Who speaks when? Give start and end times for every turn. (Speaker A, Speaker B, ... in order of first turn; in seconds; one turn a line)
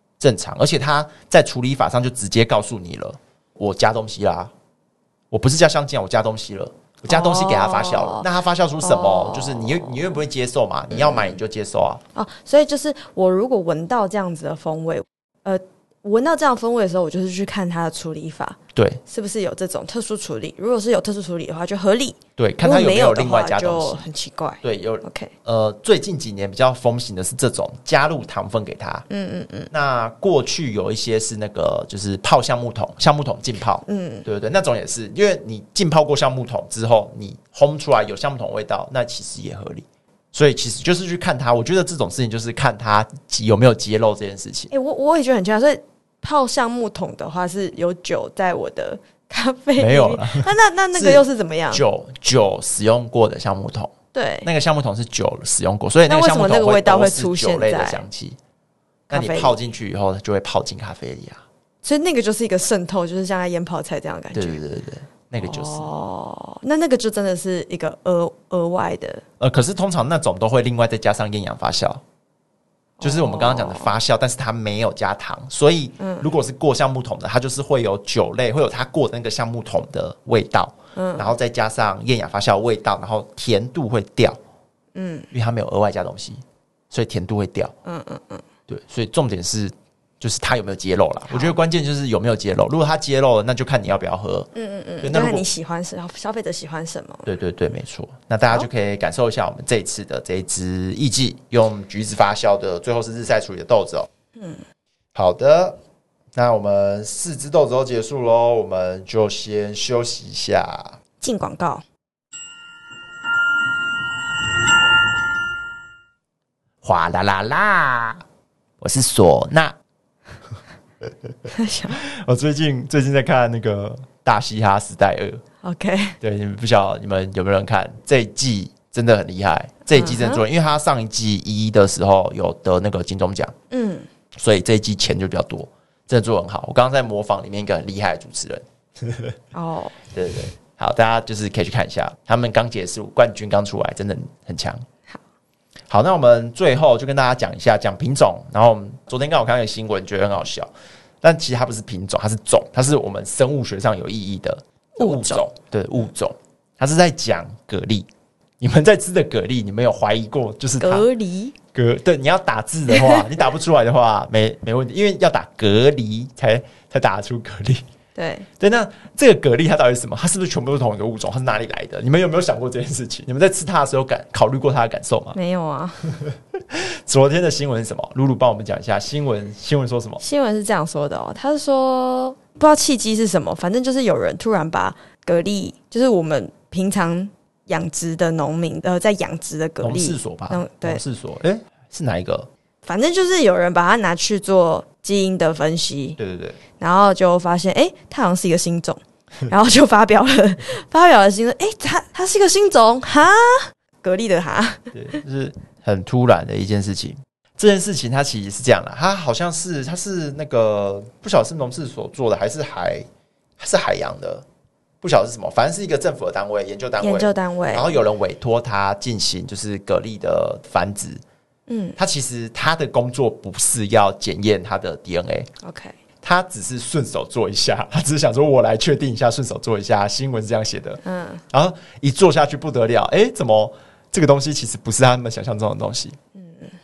Speaker A: 0.2-4.5
Speaker A: 5.3-12.0
Speaker B: 7.1-8.3
Speaker B: 8.8-10.1
Speaker B: 10.9-11.3
Speaker B: 12.1-25.3
Speaker A: 18.7-19.0
Speaker A: 22.4-24.1
Speaker A: 24.6-29.1
Speaker B: 29.1-29.7
Speaker A: 29.7-44.7
Speaker B: 33.8-34.3
Speaker B: 44.7-51.8
Speaker A: 49.8-58.4
Speaker B: 54.1-54.5
Speaker B: 56.1-58.0
Speaker B: 59.1-59.5
Speaker A: 59.1-61.4
Speaker B: 61.8-64.6
Speaker A: 64.3-65.9
Speaker B: 65.4-69.2
Speaker A: 69.4-72.0
Speaker B: 73.0-73.9
Speaker A: 73.0-84.4
Speaker B: 76.0-76.3
Speaker B: 80.9-81.3
Speaker B: 84.9-85.3
Speaker A: 85.3-87.7
Speaker B: 87.8-88.4
Speaker A: 88.7-94.5
Speaker B: 91.3-91.6
Speaker B: 94.5-97.3
Speaker A: 95.0-95.4
Speaker A: 97.2-104.1
Speaker B: 104.3-104.6
Speaker A: 105.1-105.8
Speaker A: 106.3-111.0
Speaker B: 111.2-111.8
Speaker A: 116.8-118.2
Speaker A: 118.8-119.8
Speaker B: 121.5-122.0
Speaker A: 121.9-125.4
Speaker B: 125.6-126.2
Speaker A: 126.2-133.5
Speaker B: 129.9-130.4
Speaker B: 133.7-134.1
Speaker A: 134.3-139.3
Speaker B: 139.5-140.0
Speaker A: 140.1-144.8
Speaker A: 145.9-150.7
Speaker A: 151.2-158.1
Speaker B: 154.9-155.5
Speaker A: 158.6-161.1
Speaker B: 160.8-161.6
Speaker A: 161.7-167.8
Speaker B: 162.9-163.3
Speaker B: 168.1-168.5
Speaker A: 168.6-175.4
Speaker B: 175.3-176.1
Speaker A: 176.2-180.2
Speaker B: 180.2-191.0
Speaker A: 189.8-192.5
Speaker B: 192.8-196.2
Speaker A: 196.2-196.6
Speaker B: 196.7-205.2
Speaker A: 204.9-213.1
Speaker A: 213.6-214.4
Speaker A: 215.0-221.2
Speaker B: 217.0-217.9
Speaker B: 221.7-222.0
Speaker A: 222.0-225.5
Speaker B: 225.6-226.0
Speaker A: 226.2-236.2
Speaker B: 231.0-231.4
Speaker B: 236.3-236.7